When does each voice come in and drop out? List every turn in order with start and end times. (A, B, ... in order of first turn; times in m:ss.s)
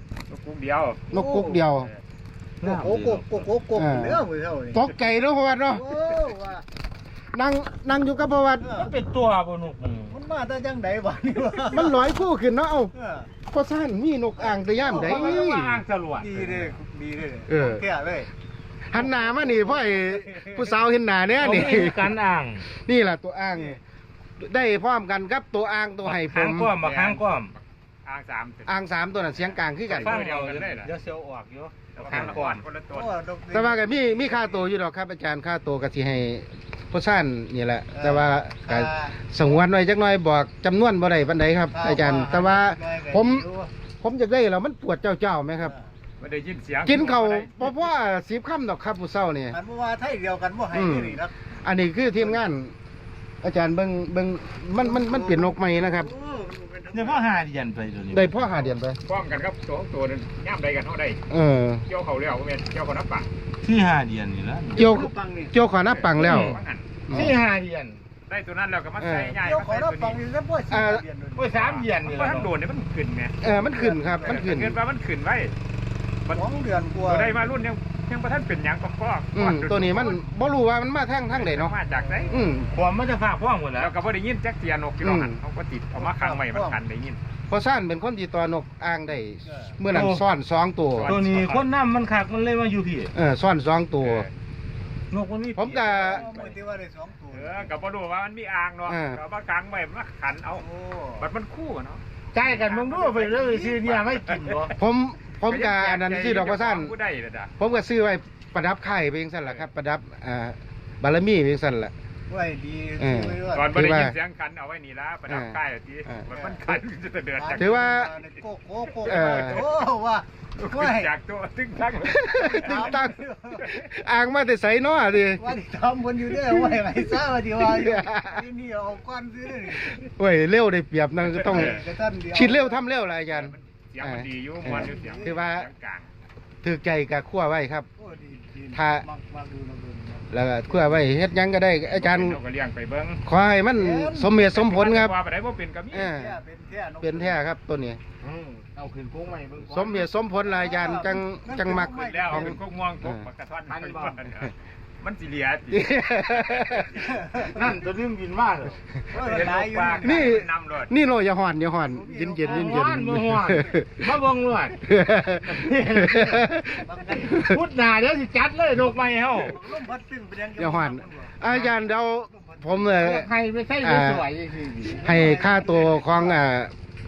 0:00.3-0:01.1 A
0:01.1-0:01.9 B
0:01.1-0:01.6 C
0:01.7-0:02.0 A
0:02.6-0:03.3 D
0:02.6-0:04.9 C
0:03.7-0:06.0 B
0:05.7-0:06.6 C
0:07.3-0:08.7 B
0:08.6-0:08.9 C
0:08.7-0:10.2 D
0:10.1-0:12.0 C
0:11.7-0:12.9 B
0:12.9-0:13.3 C
0:13.5-0:15.8 B
0:14.4-0:15.5 C
0:14.9-0:16.8 D
0:16.2-0:18.3 C
0:17.5-0:17.8 B
0:18.9-0:22.1 B
0:18.9-0:20.6 C
0:21.4-0:22.7 D
0:22.6-0:23.8 B
0:24.4-0:26.8 B
0:26.0-0:27.5 D
0:26.8-0:28.7 A
0:28.7-0:30.2 B
0:29.4-0:30.9 A
0:29.9-0:32.6 D
0:31.9-0:33.1 A
0:32.1-0:32.4 B
0:32.9-0:34.7 C
0:33.5-0:43.5 B
0:37.9-0:39.3 C
0:41.7-0:43.7 C
0:44.0-0:45.7 B
0:45.6-0:45.9 C
0:46.2-0:47.9 A
0:46.8-0:49.6 B
0:49.5-0:51.3 C
0:50.7-0:52.7 B
0:52.0-0:52.4 C
0:53.4-0:56.1 B
0:54.8-0:57.3 C
0:56.9-0:58.6 D
0:58.1-0:59.0 B
0:59.0-1:01.2 A
1:01.3-1:01.8 B
1:01.9-1:03.3 A
1:03.6-1:04.8 D
1:04.7-1:05.5 C
1:04.7-1:07.4 B
1:05.9-1:07.1 A
1:06.2-1:08.0 D
1:08.3-1:10.2 A
1:09.0-1:09.4 B
1:09.4-1:11.5 C
1:10.7-1:11.0 B
1:11.4-1:12.5 D
1:11.5-1:13.4 A
1:13.4-1:14.8 B
1:13.4-1:14.4 C
1:14.2-1:15.6 A
1:16.2-1:20.2 A
1:16.3-1:17.5 C
1:19.3-1:21.8 B
1:21.3-1:22.4 A
1:21.9-1:22.7 C
1:22.3-1:22.7 B
1:22.7-1:23.9 D
1:23.8-1:27.2 A
1:25.0-1:25.4 B
1:25.9-1:26.8 C
1:27.5-1:31.2 B
1:29.4-1:29.8 C
1:29.9-1:30.2 D
1:30.9-1:31.7 A
1:31.0-1:33.1 D
1:33.1-1:34.2 B
1:34.0-1:34.3 A
1:35.1-1:36.1 D
1:35.6-1:36.2 B
1:35.8-1:36.6 A
1:36.0-1:37.7 C
1:37.3-1:40.6 A
1:38.9-1:39.2 B
1:40.5-1:41.3 C
1:41.2-1:44.7 A
1:42.3-1:44.7 D
1:42.7-1:43.8 C
1:44.8-1:46.9 B
1:45.4-1:47.5 A
1:47.6-1:51.9 B
1:52.3-1:53.7 C
1:53.0-1:54.2 B
1:53.5-1:57.8 A
1:55.3-1:55.6 B
1:56.3-1:56.8 C
1:57.4-2:01.1 C
1:57.6-1:58.1 B
1:58.9-1:59.7 A
1:59.0-1:59.6 B
2:00.6-2:03.0 A
2:02.1-2:05.4 B
2:02.4-2:03.7 C
2:03.6-2:03.9 A
2:05.4-2:10.0 C
2:07.6-2:08.4 B
2:09.8-2:15.7 B
2:11.3-2:11.8 A
2:11.5-2:12.8 C
2:13.3-2:16.1 A
2:14.6-2:15.4 C
2:16.6-2:17.9 B
2:18.0-2:21.0 C
2:18.7-2:19.0 B
2:20.3-2:22.4 B
2:21.9-2:23.2 A
2:23.2-2:25.1 B
2:23.8-2:24.3 C
2:24.5-2:26.1 A
2:25.9-2:26.4 B
2:26.0-2:27.4 C
2:27.0-2:28.0 B
2:28.2-2:30.1 D
2:29.7-2:33.2 B
2:30.4-2:32.6 C
2:31.7-2:36.8 A
2:33.7-2:34.3 D
2:35.7-2:37.0 B
2:36.9-2:37.8 C
2:37.4-2:40.1 D
2:39.1-2:40.3 C
2:39.7-2:40.9 A
2:40.0-2:44.1 B
2:41.9-2:42.8 C
2:42.4-2:44.8 D
2:44.8-2:47.6 B
2:45.4-2:46.5 D
2:46.6-2:47.4 C
2:47.2-2:49.6 D
2:49.4-2:51.8 C
2:50.6-2:54.3 B
2:52.3-2:53.0 C
2:53.0-2:55.2 D
2:54.9-2:56.4 C
2:55.0-2:56.7 B